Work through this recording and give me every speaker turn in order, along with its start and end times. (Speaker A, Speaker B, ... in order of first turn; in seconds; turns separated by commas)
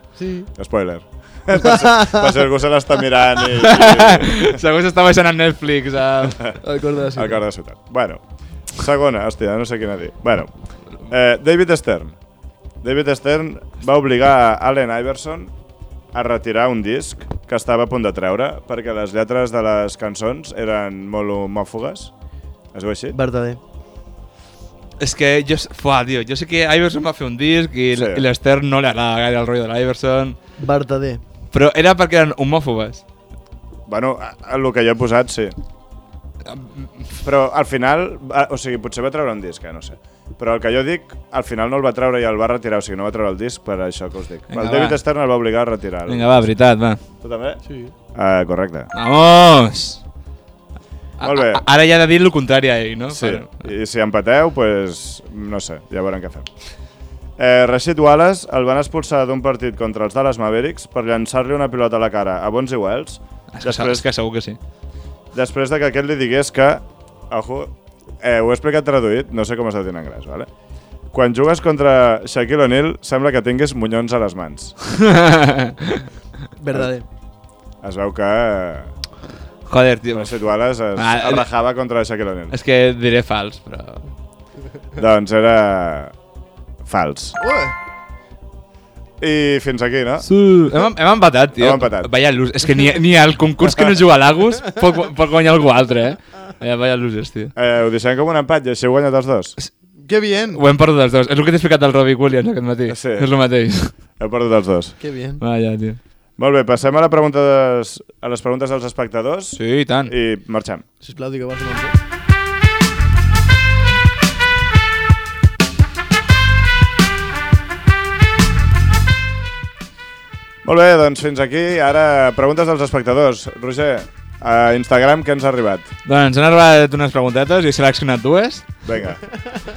Speaker A: 0.2-0.5, Speaker B: 0.5-4.6, Speaker A: 1.6-2.3, Speaker C: 3.5-6.5, Speaker A: 6.6-7.4, Speaker B: 7.1-12.2, Speaker B: 12.8-15.5, Speaker B: 16.1-22.1, Speaker B: 22.7-23.2, Speaker A: 23.1-23.6, Speaker C: 25.0-30.4, Speaker B: 27.9-28.2, Speaker A: 30.6-31.2, Speaker C: 31.5-33.0, Speaker B: 33.9-35.5, Speaker C: 36.5-37.1, Speaker B: 37.2-46.4, Speaker C: 44.5-45.0, Speaker C: 46.1-47.0, Speaker B: 47.2-47.6, Speaker A: 47.6-47.9, Speaker B: 48.1-48.9, Speaker C: 48.9-50.0, Speaker C: 51.2-53.7, Speaker B: 51.2-51.6, Speaker B: 53.1-56.5, Speaker B: 57.4-64.1, Speaker C: 63.5-64.6, Speaker B: 65.3-70.5, Speaker B: 71.1-74.8, Speaker C: 74.9-76.1, Speaker A: 76.6-77.0, Speaker B: 77.8-78.9, Speaker C: 79.7-81.5, Speaker B: 80.1-82.5, Speaker C: 82.5-84.1, Speaker B: 85.0-86.1, Speaker B: 86.8-87.4, Speaker A: 87.4-87.7, Speaker B: 89.2-90.3, Speaker C: 90.2-97.5, Speaker B: 91.6-92.1, Speaker B: 97.5-99.5, Speaker A: 100.0-100.6, Speaker C: 100.5-103.9, Speaker B: 102.9-103.3, Speaker B: 104.2-105.0, Speaker A: 105.0-105.4, Speaker C: 105.4-106.0, Speaker B: 106.4-110.8, Speaker C: 109.5-110.1, Speaker A: 111.0-112.0, Speaker B: 120.6-125.9, Speaker C: 126.0-128.8, Speaker B: 128.8-129.2